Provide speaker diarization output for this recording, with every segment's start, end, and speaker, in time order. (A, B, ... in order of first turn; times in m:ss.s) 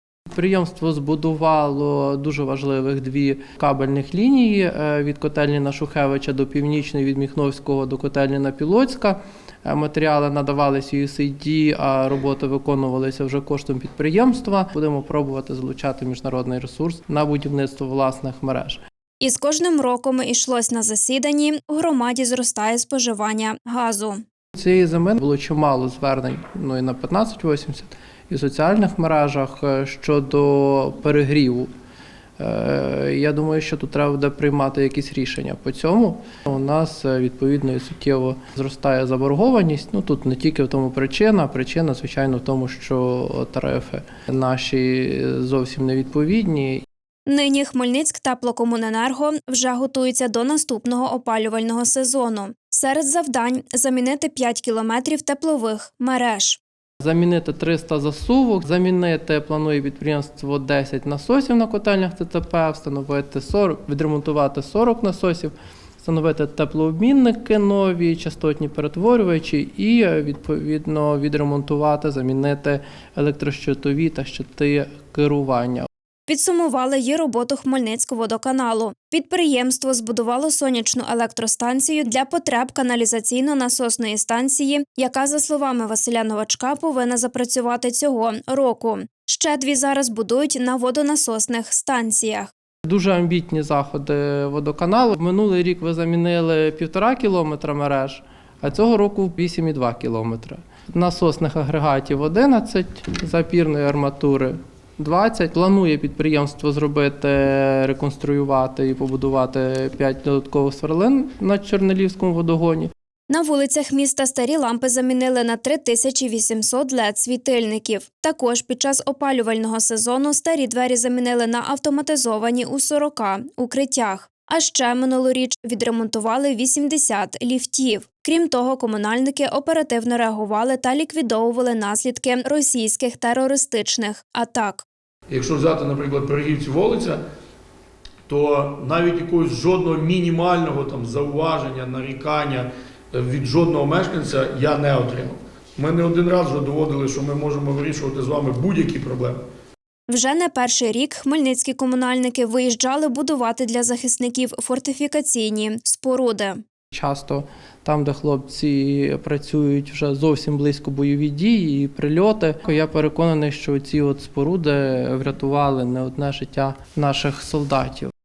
0:00.3-0:18.8 A
0:19.2-0:24.2 B
0:24.5-0:31.7 A
0:32.4-0:46.8 A
0:47.3-0:56.6 B
0:57.0-1:15.9 A
1:16.3-1:32.5 B
1:32.8-1:52.9 A
1:53.3-2:14.9 B
2:15.3-2:17.2 C
2:18.3-2:29.4 C
2:30.1-2:36.6 B
2:36.9-2:48.1 A